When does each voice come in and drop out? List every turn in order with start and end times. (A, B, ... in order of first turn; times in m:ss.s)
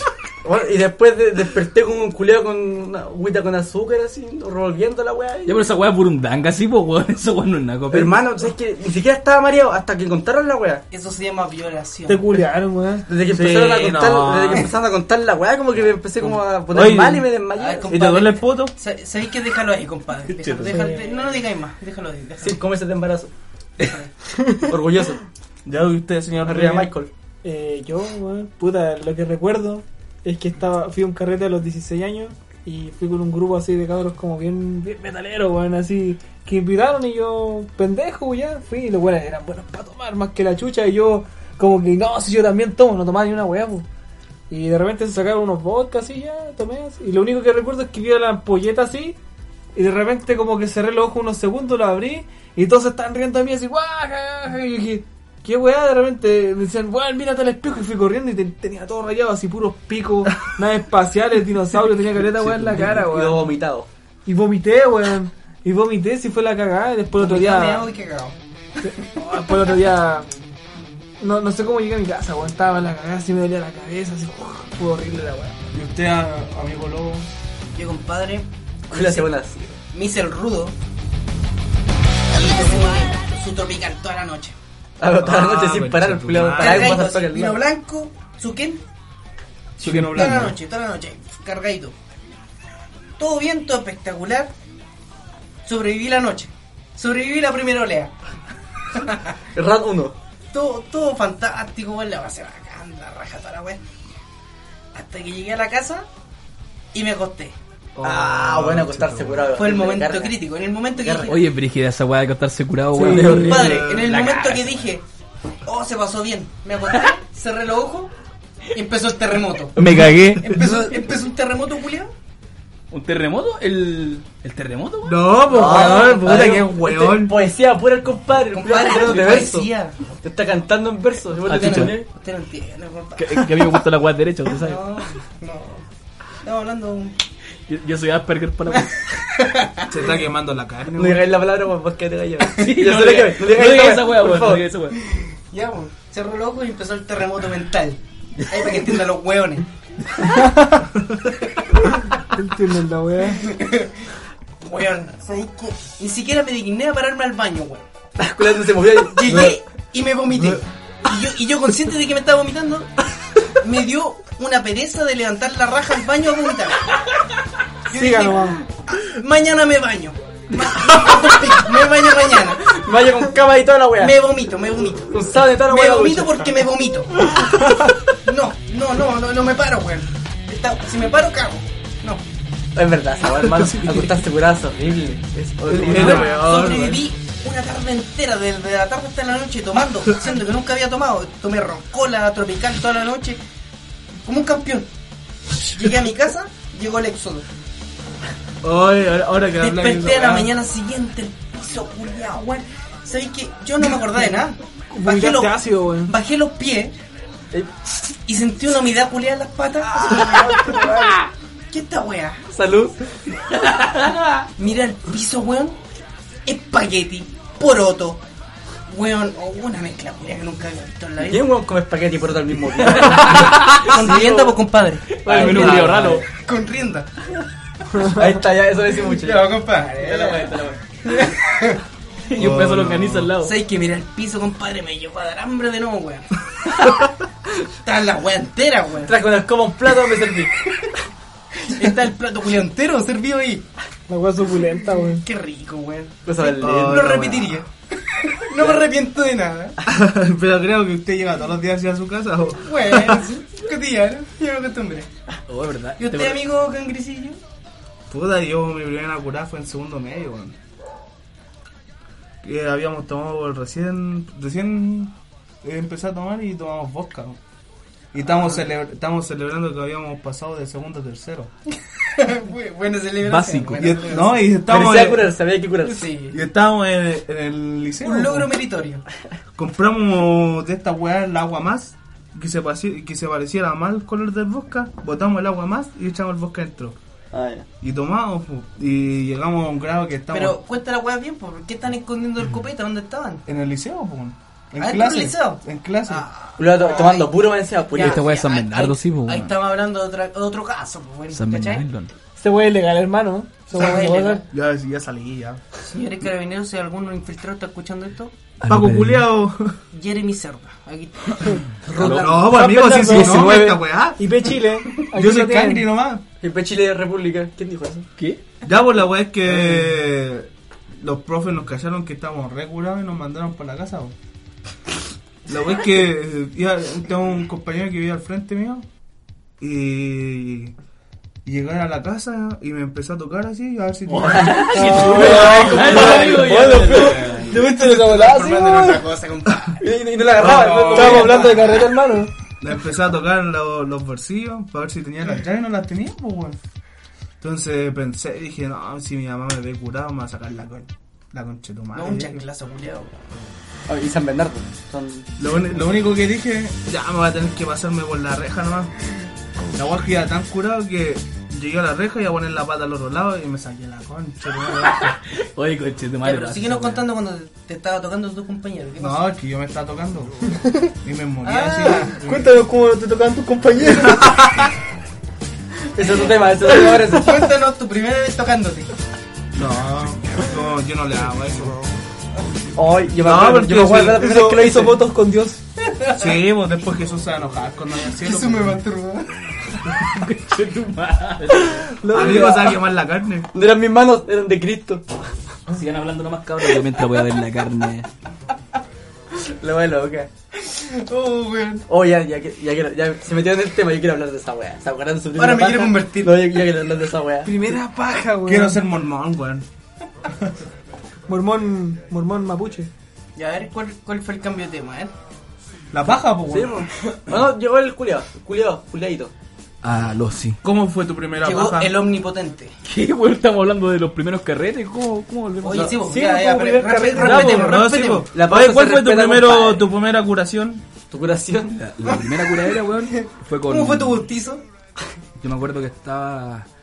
0:00.4-0:05.6 A
0:05.4-0:08.2 B
0:07.9-0:10.8 A
0:10.9-0:12.2 C
0:12.1-0:13.0 D
0:13.1-0:18.3 A
0:13.3-0:14.7 E
0:16.7-0:17.3 E
0:17.6-0:22.6 C
0:17.9-0:18.7 E
0:20.3-0:20.8 B
0:20.6-0:21.4 D
0:22.4-0:23.3 A
0:24.7-0:25.2 A
0:25.6-0:26.9 E
0:26.4-0:27.1 A
0:27.4-0:43.9 D
0:44.5-0:49.2 D
0:49.8-1:03.5 D
1:02.4-1:03.9 A
1:04.3-1:07.9 D
1:07.2-1:08.4 C
1:08.8-1:10.3 D
1:11.2-1:15.6 D
1:15.7-1:17.3 E
1:17.8-1:20.8 C
1:18.9-1:19.7 A
1:22.3-1:24.6 C
1:25.0-1:27.6 A
1:25.1-1:27.0 E
1:26.6-1:28.8 C
1:29.8-1:30.5 E
1:29.8-1:30.5 B
1:30.1-1:32.0 C
1:33.2-1:34.5 C
1:35.6-1:38.1 C
1:39.0-1:39.3 C
1:39.6-1:40.2 A
1:40.5-1:43.8 C
1:44.9-1:46.1 C
1:46.9-1:47.6 C
1:48.0-1:49.5 E
1:48.0-1:50.4 A
1:49.6-1:51.4 C
1:51.0-1:51.4 A
1:51.3-1:54.8 B
1:52.9-1:53.6 D
1:53.0-1:53.9 A
1:53.2-1:55.0 C
1:53.6-1:54.1 E
1:55.7-1:58.1 C
1:58.7-1:59.8 C
1:59.8-2:00.5 B
2:00.4-2:02.1 C
2:02.9-2:05.5 B
2:05.0-2:07.4 E
2:05.5-2:09.7 A
2:05.6-2:06.2 C
2:08.6-2:10.2 C
2:10.2-2:12.1 A
2:11.5-2:12.0 B
2:11.5-2:13.5 C
2:13.2-2:14.8 B
2:14.5-2:15.9 C
2:16.4-2:17.2 C
2:17.7-2:19.0 B
2:19.3-2:19.9 C
2:19.9-2:21.3 E
2:21.0-2:24.6 A
2:22.5-2:25.0 B
2:25.5-2:29.7 C
2:32.3-2:33.5 D
2:33.4-2:34.0 C
2:34.6-2:37.9 C
2:38.2-2:39.6 A
2:39.1-2:42.9 C
2:43.6-2:47.0 C
2:47.9-2:52.7 C
2:47.9-2:48.6 D
2:52.7-2:54.2 A
2:54.0-2:57.6 C
2:55.1-2:56.5 A
2:58.2-3:02.2 C
3:02.8-3:06.3 A
3:03.6-3:04.0 E
3:05.6-3:07.1 E
3:05.9-3:13.4 C
3:14.2-3:14.9 C
3:15.7-3:17.5 C
3:18.6-3:20.5 E
3:19.6-3:26.9 C
3:24.9-3:26.1 D
3:28.3-3:31.1 C
3:30.0-3:31.3 A
3:31.7-3:32.4 C
3:32.5-3:33.0 A
3:33.6-3:34.4 B
3:34.6-3:35.8 C
3:36.5-3:38.2 C
3:38.9-3:41.4 C
3:41.2-3:44.6 A
3:43.2-3:47.1 C
3:43.2-3:43.9 B
3:45.2-3:46.2 B
3:45.2-3:46.2 A
3:48.0-3:49.6 A
3:49.1-3:51.8 C
3:49.9-3:50.8 B
3:52.3-3:53.6 B
3:52.4-3:53.3 E
3:53.4-3:56.3 C
3:57.8-3:59.2 C
3:59.1-4:00.6 A
4:01.7-4:03.6 C
4:04.1-4:05.2 D
4:05.2-4:09.8 C
4:06.3-4:07.2 A
4:06.6-4:07.6 E
4:08.6-4:08.9 A
4:09.9-4:13.2 E
4:12.6-4:15.1 C
4:15.5-4:16.4 B
4:16.0-4:17.4 C
4:18.1-4:20.6 E
4:22.4-4:27.4 E
4:28.1-4:31.5 E
4:28.2-4:28.6 C
4:32.1-4:34.6 C
4:33.2-4:34.3 B
4:33.8-4:35.3 E
4:34.6-4:36.1 A
4:35.8-4:36.4 C
4:36.3-4:38.5 E
4:38.0-4:39.0 C
4:39.6-4:47.0 E
4:47.3-4:47.7 A
4:47.8-4:50.6 E
4:50.3-4:53.4 C
4:53.5-4:56.2 E
4:54.8-4:57.4 C
4:56.6-4:58.2 A
4:57.9-5:01.8 C
4:58.0-4:59.6 B
5:01.3-5:02.1 B
5:02.4-5:04.4 D
5:03.7-5:04.4 C
5:04.5-5:05.6 E
5:05.8-5:08.3 C
5:08.6-5:09.4 B
5:08.7-5:09.8 E
5:09.9-5:12.6 C
5:12.0-5:12.4 B
5:12.0-5:16.2 E
5:12.4-5:15.9 D
5:13.0-5:13.8 A
5:16.4-5:18.1 A
5:18.6-5:24.1 E
5:25.5-5:28.9 E
5:29.6-5:30.7 E
5:31.4-5:36.7 E
5:34.1-5:37.7 B
5:34.3-5:37.4 A
5:34.7-5:39.0 D
5:37.8-5:39.8 C
5:39.8-5:42.0 A
5:40.4-5:41.5 E
5:40.6-5:41.6 C
5:40.7-5:42.3 D
5:42.6-5:46.6 E
5:47.4-5:52.4 E
5:51.9-5:53.1 C
5:53.9-5:55.3 A
5:55.4-5:58.9 E
5:59.7-6:05.2 E
6:04.9-6:07.1 B
6:06.2-6:09.3 C
6:09.0-6:10.4 E
6:11.0-6:12.5 E
6:11.4-6:12.1 C
6:12.2-6:14.5 D
6:16.0-6:17.4 A
6:17.1-6:18.9 C
6:19.6-6:21.8 E
6:22.8-6:25.1 A
6:23.2-6:24.3 E
6:23.9-6:25.6 D
6:25.9-6:26.3 C
6:26.1-6:28.8 E
6:28.2-6:29.3 C
6:30.0-6:31.9 B
6:32.0-6:32.8 D
6:32.1-6:33.5 E
6:33.5-6:35.0 A
6:35.7-6:38.1 B
6:39.4-6:40.3 A
6:40.6-6:41.8 C
6:41.9-6:47.6 A
6:45.4-6:46.4 C
6:47.4-6:48.8 D
6:48.4-6:49.7 E
6:51.3-6:52.9 D
6:53.4-6:55.1 C
6:55.9-6:56.9 E
6:56.5-6:59.3 A
6:59.8-7:00.6 B
7:00.6-7:02.0 E
7:01.4-7:02.7 C
7:02.9-7:06.0 B
7:05.6-7:08.3 C
7:06.0-7:07.7 D
7:07.2-7:10.8 E
7:08.3-7:09.9 A
7:11.1-7:11.7 A
7:11.7-7:14.3 B
7:12.9-7:14.6 C
7:15.4-7:16.7 B